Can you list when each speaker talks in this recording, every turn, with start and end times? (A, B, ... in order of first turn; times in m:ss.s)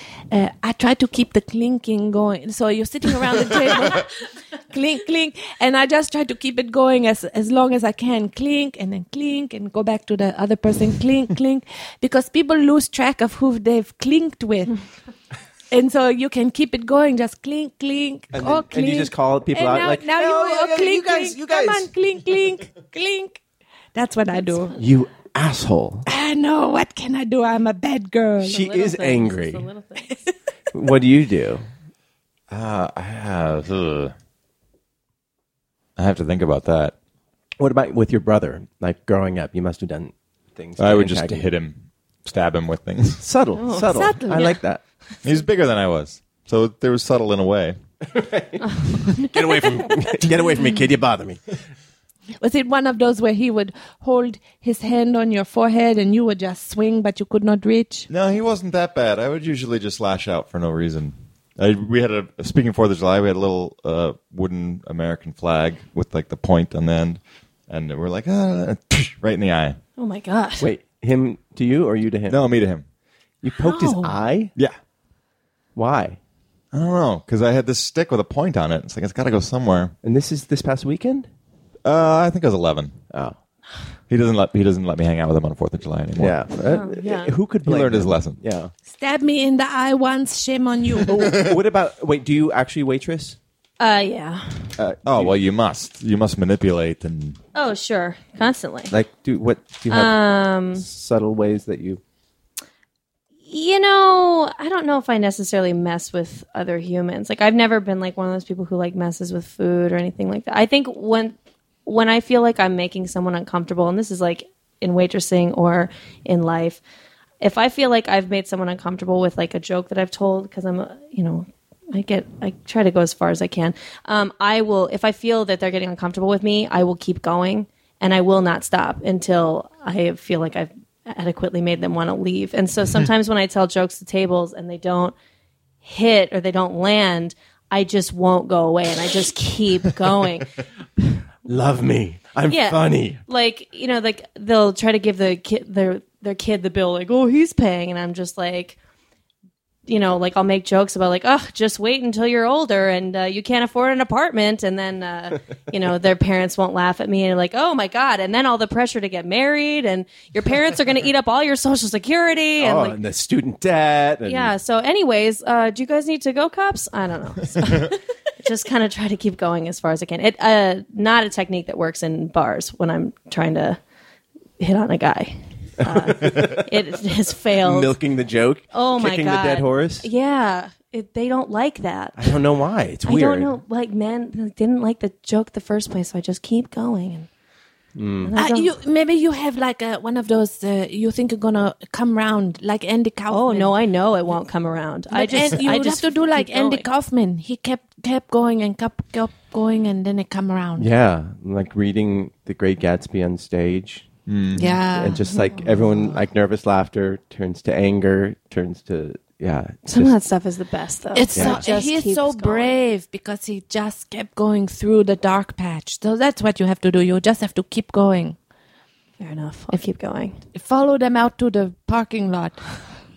0:00.3-0:04.1 A
0:04.7-0:14.7 A
0:15.7-0:23.4 A
0:18.3-0:21.9 B
0:23.9-0:24.7 A
0:24.8-0:26.0 B
0:26.0-0:28.6 A
0:28.4-0:29.7 B
0:28.5-0:30.2 C
0:30.7-0:31.7 B
0:32.5-0:34.1 D
0:36.0-0:36.9 D
0:37.6-0:41.5 B
0:40.8-0:43.2 D
0:43.2-0:44.8 B
0:43.6-0:44.6 C
0:43.7-0:44.6 A
0:45.2-0:47.8 D
0:48.0-0:51.4 B
0:48.7-0:48.9 C
0:52.4-0:58.1 A
0:58.1-1:09.8 D
1:10.0-1:10.7 C
1:10.6-1:12.4 B
1:12.3-1:12.8 D
1:13.4-1:14.5 B
1:13.6-1:14.1 A
1:15.8-1:16.2 B
1:16.7-1:19.9 D
1:20.0-1:21.3 B
1:21.8-1:23.0 D
1:23.1-1:23.4 B
1:24.1-1:26.4 D
1:26.2-1:28.7 B
1:26.6-1:27.3 C
1:27.6-1:28.4 D
1:28.9-1:31.4 A
1:31.1-1:33.4 B
1:33.8-1:34.7 C
1:34.8-1:35.4 B
1:35.0-1:37.4 D
1:37.5-1:38.9 C
1:38.9-1:40.2 B
1:39.9-1:40.8 C
1:40.7-1:42.0 B
1:43.4-1:56.8 C
1:57.4-2:15.1 C
2:15.8-2:20.5 C
2:21.4-2:23.2 B
2:22.5-2:28.8 C
2:29.9-2:43.0 C
2:42.6-2:44.5 B
2:44.2-2:53.8 C
2:54.6-2:57.9 C
2:55.8-2:56.8 B
2:57.5-3:00.1 B
2:58.7-3:02.3 C
3:02.2-3:03.5 B
3:03.0-3:07.3 C
3:07.9-3:08.3 B
3:08.2-3:08.7 C
3:08.4-3:13.7 A
3:13.3-3:16.9 C
3:15.1-3:20.9 A
3:20.8-3:24.1 B
3:24.3-3:24.6 D
3:24.5-3:25.3 A
3:24.9-3:30.2 B
3:25.3-3:25.5 C
3:29.9-3:32.7 C
3:31.1-3:38.4 A
3:31.3-3:31.6 B
3:39.2-3:40.4 C
3:40.5-3:42.8 A